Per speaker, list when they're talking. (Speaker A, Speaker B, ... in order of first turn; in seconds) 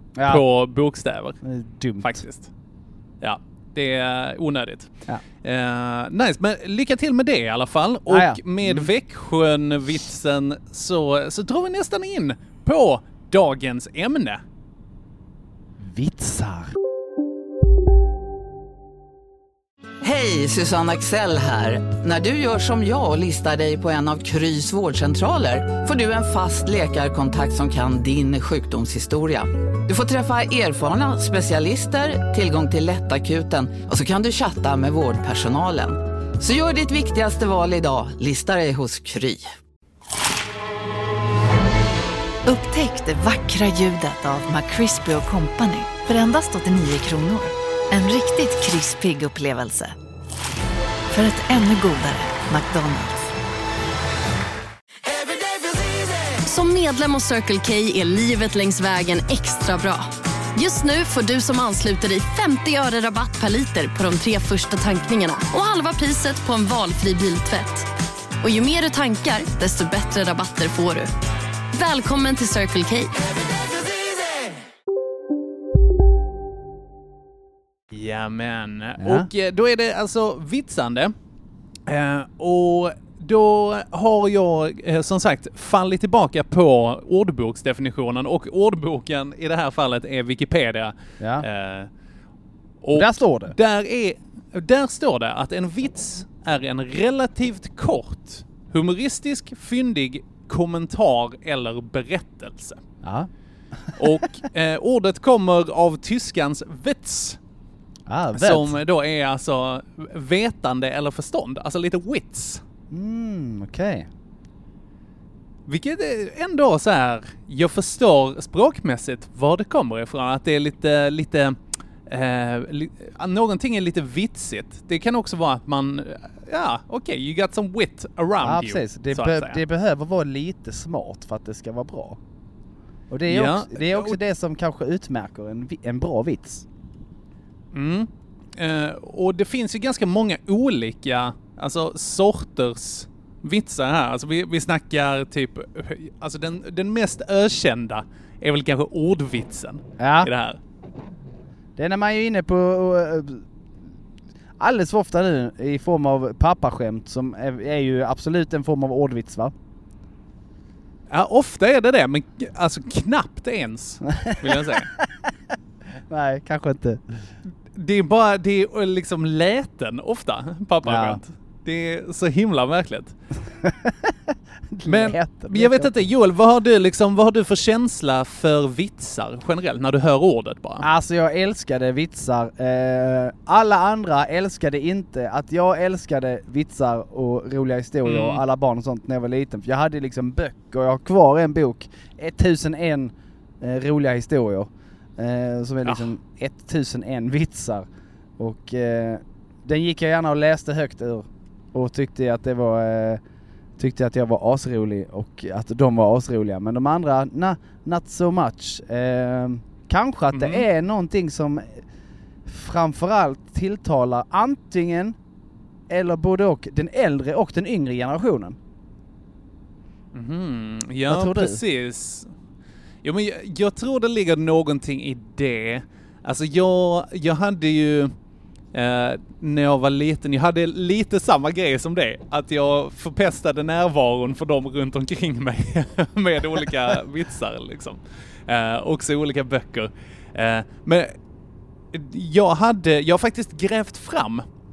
Speaker A: 0.2-0.4, 1.4-2.2, 8.1-8.9, 15.8-16.8, 79.0-79.3, 91.2-91.5, 92.9-93.5, 103.0-103.3, 108.1-108.8, 112.9-114.1, 128.4-132.2, 133.1-136.7, 150.0-150.3, 151.8-153.4, 154.6-159.5, 164.1-165.3, 166.1-167.2, 170.8-171.2, 173.6-174.2, 174.7-175.9, 180.8-203.2, 203.8-211.8, 212.4-215.2, 215.9-218.6, 221.1-221.6
Speaker B: 0.3-1.4, 2.0-2.5, 3.2-4.9, 5.4-14.4, 77.9-81.1, 81.9-91.9, 92.8-102.8, 104.0-107.4, 108.4-112.6, 115.7-129.6, 133.3-134.2, 137.7-150.6, 161.1-164.9, 167.7-173.2, 174.8-180.9, 188.1-188.4, 195.8-196.1, 210.3-210.7, 220.1-222.3, 223.0-228.2, 228.7-241.2, 241.9-244.4
Speaker C: 20.0-39.5
Speaker D: 42.5-49.9, 51.1-53.3
Speaker E: 56.4-67.9, 68.4-71.1, 71.7-73.2